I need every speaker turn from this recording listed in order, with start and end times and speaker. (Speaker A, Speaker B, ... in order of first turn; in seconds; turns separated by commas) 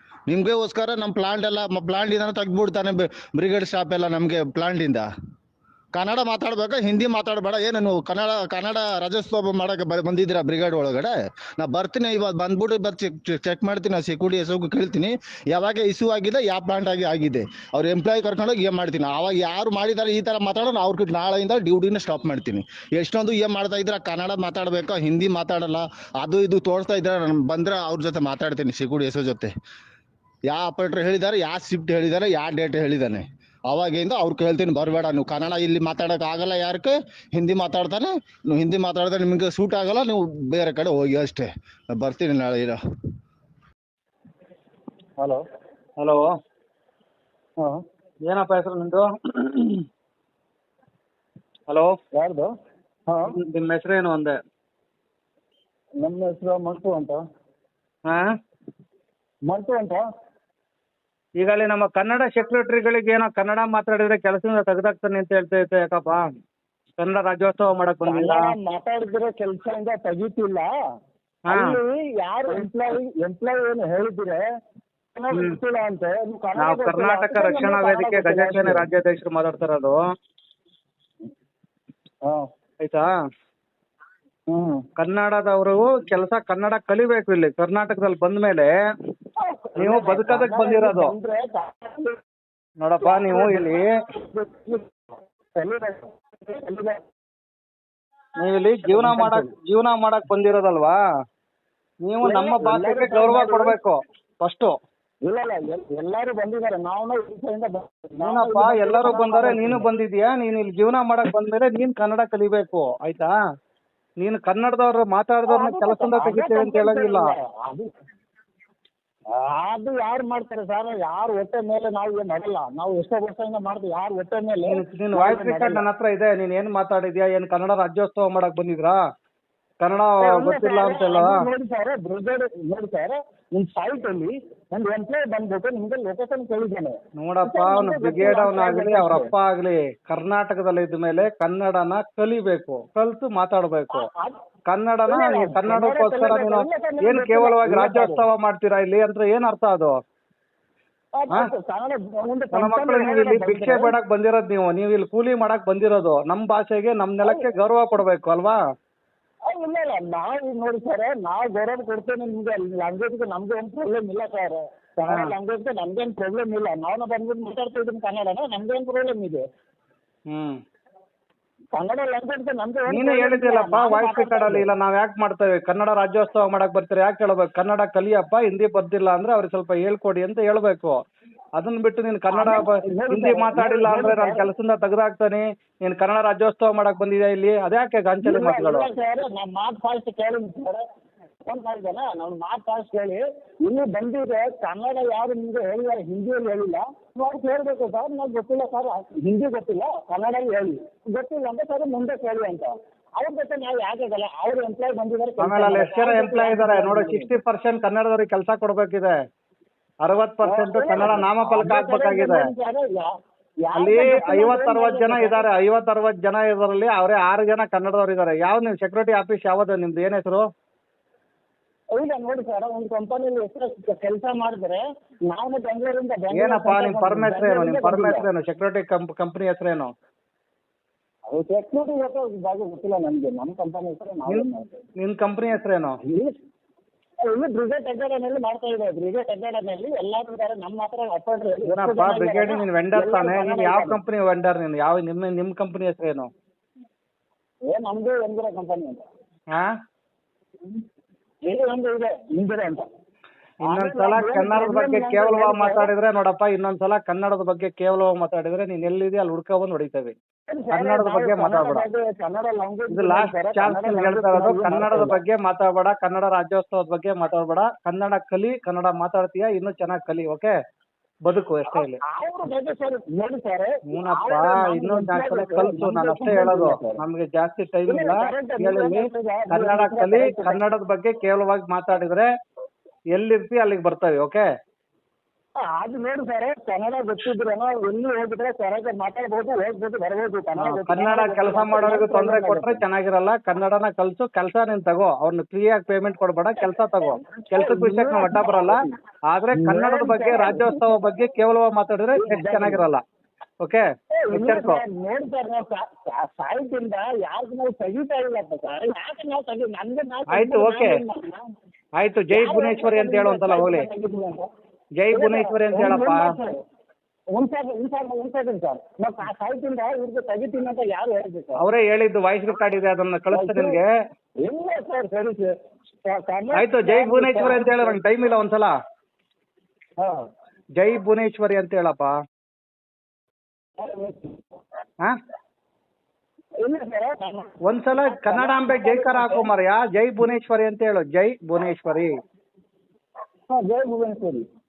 Speaker A: 0.3-5.1, Speaker A: 5.9-29.5, Speaker A: 30.5-42.8, Speaker B: 46.0-46.3, Speaker B: 48.2-49.8, Speaker B: 51.7-51.9, Speaker C: 52.1-52.5, Speaker C: 53.1-53.4, Speaker B: 53.3-54.4, Speaker C: 56.0-57.2, Speaker C: 59.5-60.0, Speaker B: 61.4-66.3, Speaker B: 67.0-68.5, Speaker C: 68.0-70.7, Speaker B: 71.5-71.7, Speaker C: 71.5-74.4, Speaker C: 75.1-78.8, Speaker B: 75.3-75.6, Speaker B: 76.6-80.0, Speaker B: 82.8-83.1, Speaker C: 84.5-84.8, Speaker B: 85.0-88.7, Speaker C: 89.4-92.2, Speaker B: 89.8-91.1, Speaker B: 92.8-93.9, Speaker C: 93.0-94.8, Speaker C: 95.5-97.0, Speaker B: 98.4-101.0, Speaker C: 98.8-99.5, Speaker B: 102.0-104.7, Speaker C: 102.2-103.8, Speaker C: 105.2-109.9, Speaker B: 108.2-113.3, Speaker B: 114.2-117.3, Speaker C: 115.5-117.9, Speaker C: 119.3-125.8, Speaker B: 124.7-129.0, Speaker B: 129.8-131.4, Speaker C: 130.2-139.3, Speaker B: 137.2-144.1, Speaker C: 143.9-144.4, Speaker B: 144.7-150.0, Speaker C: 145.1-148.2, Speaker C: 151.1-153.9, Speaker B: 152.5-158.6, Speaker C: 159.4-169.4, Speaker B: 165.1-165.3, Speaker B: 170.3-170.6, Speaker C: 171.7-174.7, Speaker B: 172.9-181.0, Speaker B: 181.6-188.9, Speaker C: 182.3-184.5, Speaker C: 188.2-190.8, Speaker C: 191.4-207.4, Speaker B: 205.4-209.1, Speaker B: 210.0-212.4, Speaker C: 210.4-213.1, Speaker C: 213.7-215.5, Speaker B: 213.8-220.4, Speaker C: 221.9-228.3, Speaker B: 226.3-229.9, Speaker C: 231.3-234.8, Speaker B: 234.3-236.0, Speaker C: 236.0-236.3, Speaker C: 237.2-244.0, Speaker B: 241.7-246.3, Speaker C: 247.7-249.0, Speaker C: 251.4-252.9, Speaker C: 253.6-255.9, Speaker B: 253.6-260.1, Speaker C: 260.5-265.2, Speaker B: 260.7-261.8, Speaker B: 262.9-270.5, Speaker B: 271.2-272.0, Speaker C: 271.7-277.0, Speaker B: 273.9-282.3, Speaker C: 277.9-280.6, Speaker B: 283.1-284.4, Speaker C: 285.6-292.8, Speaker B: 290.6-298.8, Speaker C: 296.6-298.9, Speaker B: 299.3-303.0, Speaker C: 299.5-300.8, Speaker C: 302.1-302.8, Speaker B: 303.6-304.8, Speaker C: 304.1-311.5, Speaker B: 310.3-310.9, Speaker B: 312.0-313.9, Speaker C: 312.3-314.5, Speaker B: 315.0-316.3, Speaker C: 315.1-316.5, Speaker C: 317.3-321.6, Speaker B: 321.6-323.9, Speaker C: 323.3-323.8, Speaker C: 324.4-328.0, Speaker B: 326.6-328.7, Speaker B: 330.8-332.1, Speaker C: 333.8-334.4, Speaker C: 336.6-339.5, Speaker B: 337.6-342.1, Speaker C: 343.5-344.4